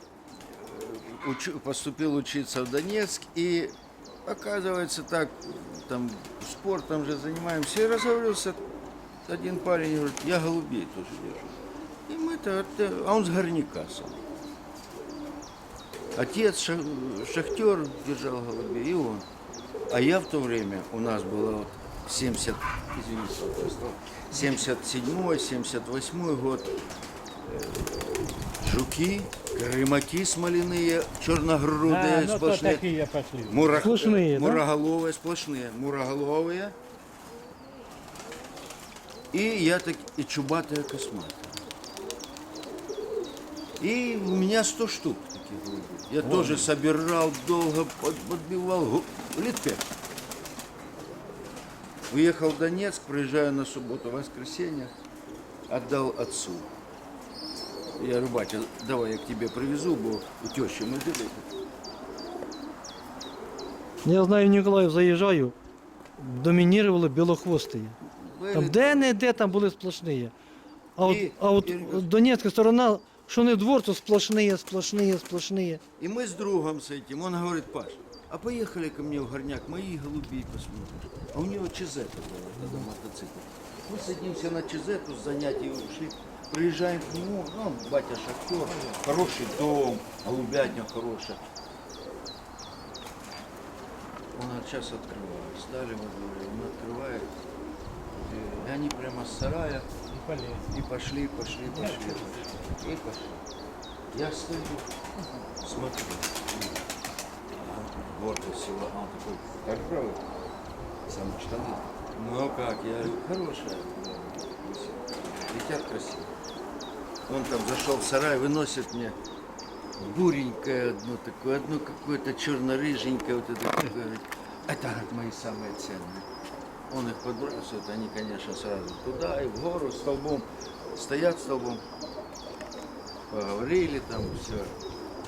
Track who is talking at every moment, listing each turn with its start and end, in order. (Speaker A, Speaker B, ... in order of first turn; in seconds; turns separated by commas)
Speaker A: 0.4-8.6, Speaker A: 9.3-14.2, Speaker A: 16.1-19.3, Speaker A: 19.9-26.7, Speaker A: 27.4-32.8, Speaker B: 31.8-34.0, Speaker A: 33.5-36.8, Speaker C: 33.8-34.6, Speaker A: 39.3-41.6, Speaker A: 43.8-49.9, Speaker B: 46.2-46.7, Speaker A: 52.1-54.9, Speaker A: 55.7-56.7, Speaker A: 58.0-61.5, Speaker C: 64.0-65.5, Speaker C: 66.2-68.0, Speaker A: 68.1-69.1, Speaker C: 68.5-70.3, Speaker C: 71.0-75.8, Speaker A: 71.0-72.1, Speaker A: 76.0-91.4, Speaker B: 88.6-89.2, Speaker A: 94.3-97.3, Speaker A: 98.2-99.9, Speaker B: 100.1-100.8, Speaker A: 100.7-103.4, Speaker B: 101.6-102.7, Speaker A: 104.1-104.9, Speaker A: 105.6-106.8, Speaker A: 107.5-110.2, Speaker A: 111.1-116.3, Speaker A: 117.3-119.2, Speaker A: 120.0-126.3, Speaker A: 126.9-131.8, Speaker A: 133.3-134.8